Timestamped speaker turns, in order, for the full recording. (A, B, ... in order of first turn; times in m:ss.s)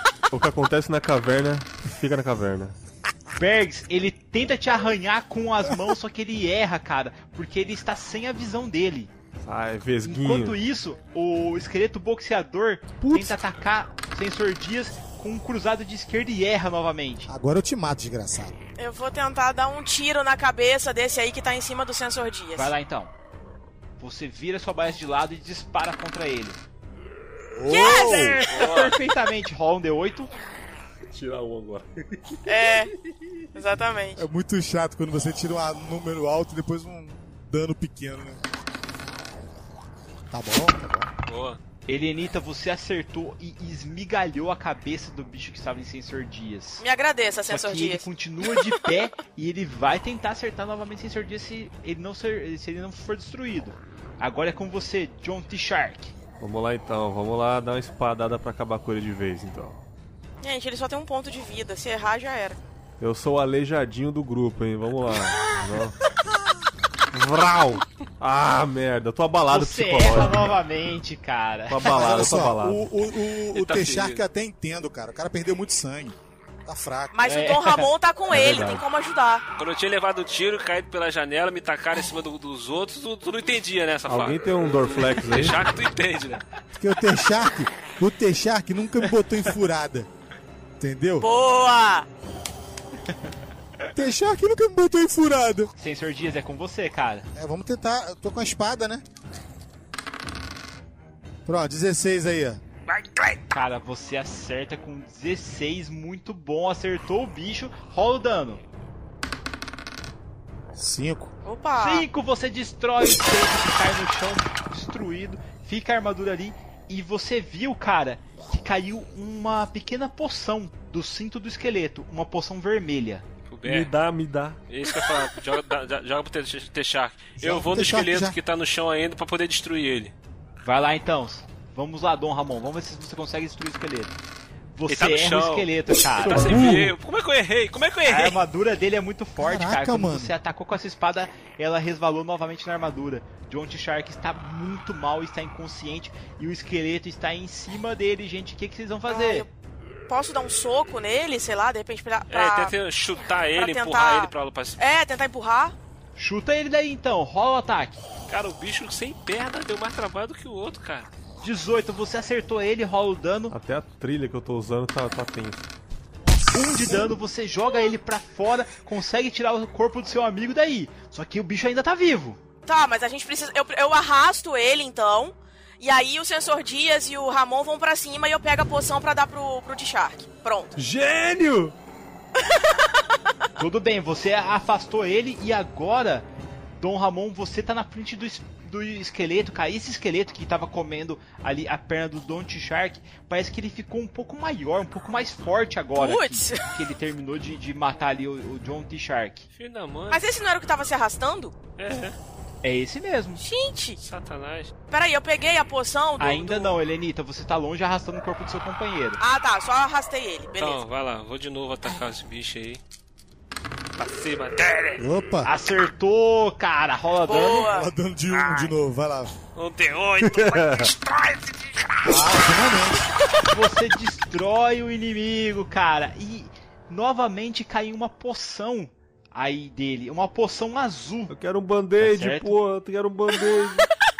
0:00.3-0:02.8 A
0:03.4-0:09.1 B
0:09.4-0:10.6 A
0:10.0-0:17.3 B
0:13.0-0:13.4 A
0:17.3-0:18.6 C
0:18.8-0:22.7 D
0:22.5-0:23.1 B
0:24.0-0:26.6 B
0:27.5-0:28.4 C
0:27.7-0:28.4 D
0:27.7-0:30.3 B
0:28.5-0:28.9 E
0:31.0-0:32.7 A
0:32.4-0:32.9 D
0:33.5-0:34.2 D
0:34.2-0:38.4 C
0:40.3-0:41.1 C
0:41.3-0:41.6 E
0:41.9-0:46.8 B
0:46.8-0:48.7 D
0:47.5-0:56.1 B
0:56.4-0:59.8 A
1:00.4-1:02.6 D
1:03.0-1:05.9 A
1:07.1-1:10.6 A
1:09.5-1:11.9 B
1:11.7-1:12.9 A
1:11.8-1:17.2 C
1:13.5-1:14.2 E
1:17.1-1:19.4 D
1:17.2-1:18.5 B
1:18.3-1:18.8 A
1:19.6-1:26.4 E
1:24.0-1:25.6 A
1:26.8-1:30.1 C
1:30.8-1:31.3 C
1:31.2-1:32.1 D
1:33.9-1:35.7 C
1:35.8-1:37.3 B
1:37.3-1:39.0 C
1:41.4-1:42.6 C
1:42.9-1:43.4 F
1:43.5-1:48.6 B
1:50.7-1:51.3 C
1:51.4-1:52.1 D
1:51.8-2:03.2 B
2:03.5-2:03.9 E
2:03.6-2:04.6 A
2:04.7-2:10.1 E
2:07.4-2:08.4 C
2:10.6-2:14.2 B
2:14.7-2:16.5 B
2:14.9-2:18.4 E
2:16.5-2:16.8 C
2:18.0-2:29.4 B
2:19.4-2:20.3 C
2:29.1-2:29.5 D
2:30.1-2:32.7 D
2:32.3-2:34.8 E
2:33.5-2:35.7 D
2:36.2-2:38.0 B
2:38.3-2:41.1 E
2:41.4-2:43.5 B
2:43.5-2:45.7 A
2:46.5-2:52.4 B
2:52.6-3:00.7 D
3:00.7-3:01.7 A
3:03.6-3:06.2 B
3:06.8-3:19.5 B
3:16.0-3:16.7 D
3:19.5-3:20.2 E
3:20.1-3:21.5 D
3:21.8-3:22.2 E
3:22.6-3:23.4 B
3:23.4-3:24.0 D
3:24.0-3:24.7 E
3:24.9-3:26.7 D
3:26.2-3:29.2 B
3:29.2-3:30.8 D
3:30.6-3:32.8 E
3:34.0-3:35.0 E
3:35.0-3:35.5 C
3:35.4-3:37.7 B
3:37.2-3:37.9 D
3:37.6-3:39.3 C
3:38.3-3:38.7 F
3:39.6-3:40.6 E
3:40.2-3:40.9 A
3:40.7-3:42.3 F
3:42.0-3:43.0 C
3:43.5-3:51.3 B
3:51.3-3:53.9 A
3:52.0-3:52.6 B